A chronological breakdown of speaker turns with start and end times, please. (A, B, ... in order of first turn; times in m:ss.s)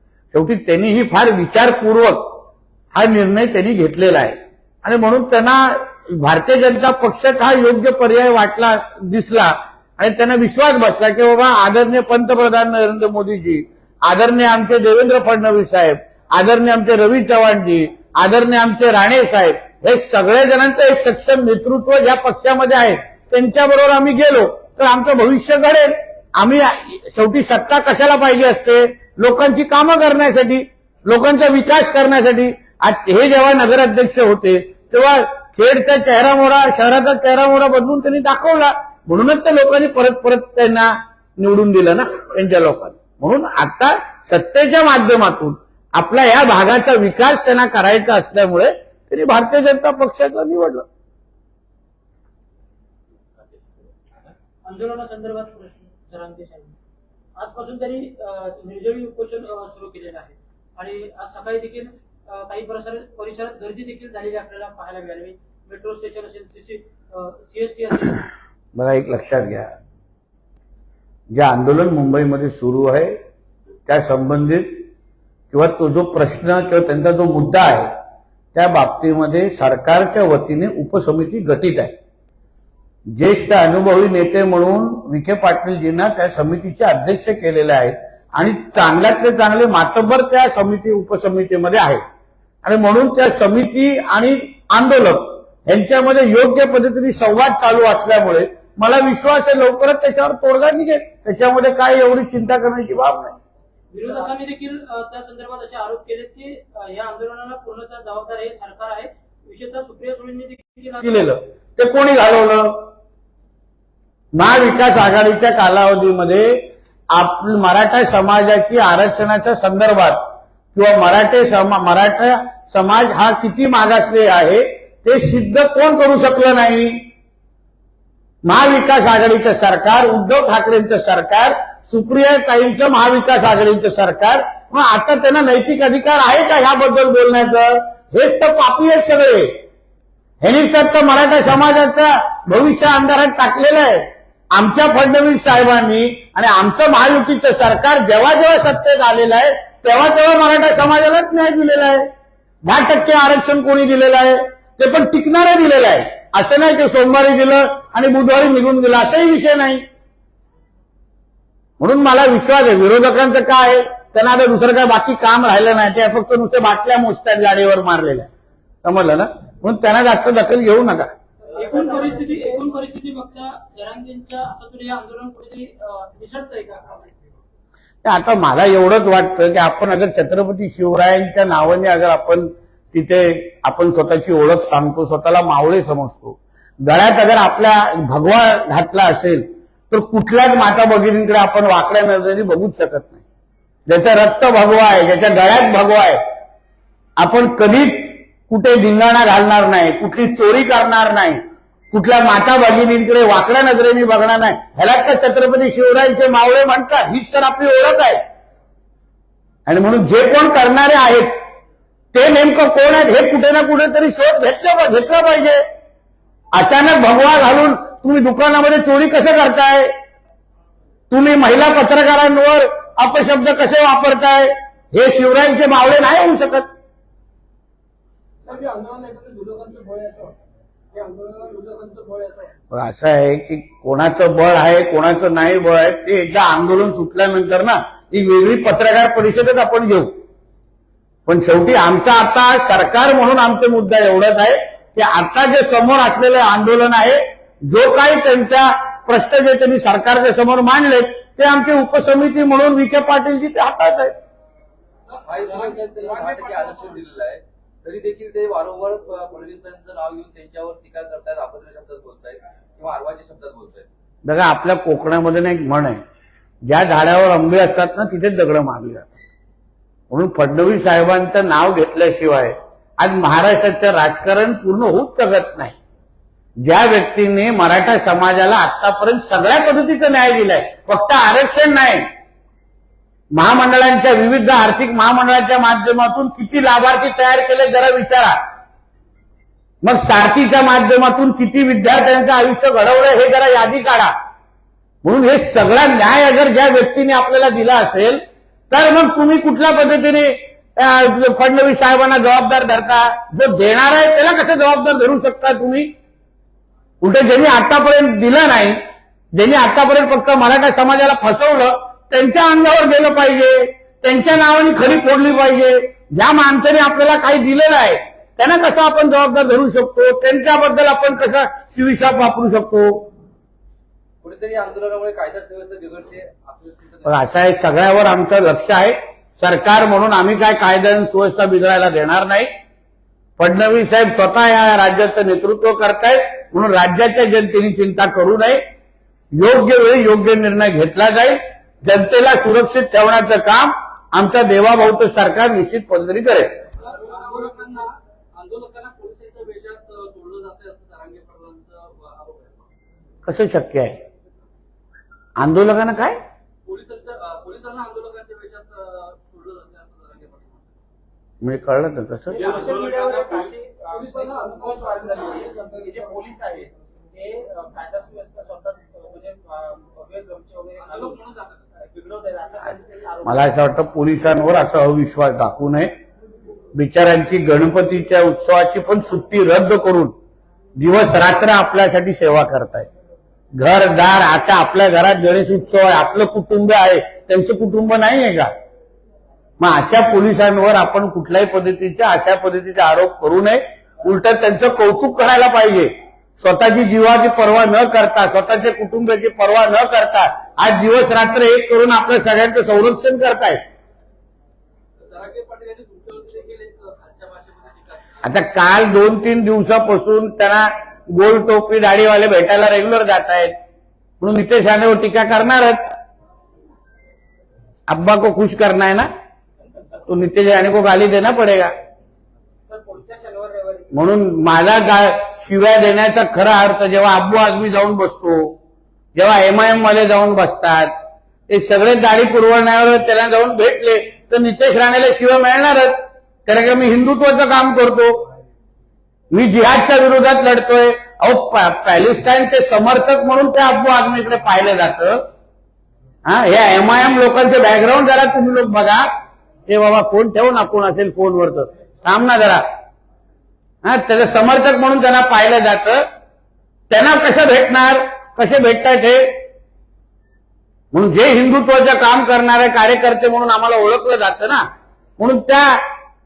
0:00.3-0:50.9 A
0:53.4-0:53.8 B
0:54.6-0:56.7 C
0:57.4-1:08.3 C
1:08.8-1:09.7 A
1:11.3-1:13.2 A
1:13.9-1:14.8 A
1:15.5-1:17.9 A
1:18.6-1:22.0 A
1:23.1-1:32.0 A
1:32.6-1:43.4 A
1:43.9-1:51.3 C
1:44.0-1:44.3 D
1:51.0-1:52.9 A
1:54.4-2:07.1 A
2:08.4-2:19.6 A
2:20.4-2:32.1 A
2:32.6-2:39.8 A
2:41.8-2:48.3 A
2:48.8-2:51.1 A
2:51.4-2:52.8 D
2:51.6-2:57.0 C
2:58.0-3:13.2 A
3:13.9-3:16.2 A
3:17.2-3:28.2 A
3:29.7-3:31.4 A
3:32.1-3:35.6 A
3:36.5-3:39.9 A
3:41.1-3:46.7 A
3:48.4-3:50.4 E
3:50.9-3:52.5 E
3:52.7-4:00.2 A
4:01.3-4:14.1 A
4:15.1-4:17.0 E
4:15.2-4:23.9 B
4:24.3-4:26.0 A
4:26.7-4:29.2 A
4:30.1-4:35.8 A
4:36.6-4:42.1 A
4:43.3-4:48.4 A
4:49.8-4:54.1 A
4:55.0-5:05.9 A
5:07.0-5:08.8 A
5:09.3-5:23.1 A
5:24.2-5:27.1 B
5:27.0-5:32.5 A
5:33.4-5:38.6 A
5:39.4-5:46.5 A
5:46.8-5:52.7 E
5:53.2-5:54.0 A
5:55.4-5:56.2 A
5:56.7-6:00.7 E
6:01.4-6:02.4 A
6:02.3-6:11.2 D
6:02.3-6:03.5 B
6:03.9-6:06.2 E
6:10.8-6:11.6 E
6:11.8-6:13.6 D
6:13.2-6:15.9 A
6:16.7-6:20.2 A
6:20.8-6:22.9 A
6:23.6-6:28.5 A
6:29.6-6:43.6 A
6:45.0-6:48.4 E
6:48.2-6:53.6 A
6:54.2-6:55.9 A
6:57.9-6:59.1 A
7:00.1-7:01.7 A
7:02.7-7:03.9 D
7:03.9-7:08.6 A
7:09.2-7:10.9 A
7:11.5-7:18.2 A
7:19.3-7:25.2 A
7:26.2-7:29.1 A
7:29.7-7:32.7 A
7:33.8-7:36.0 A
7:36.9-7:39.4 A
7:40.9-7:44.6 A
7:45.2-7:45.8 A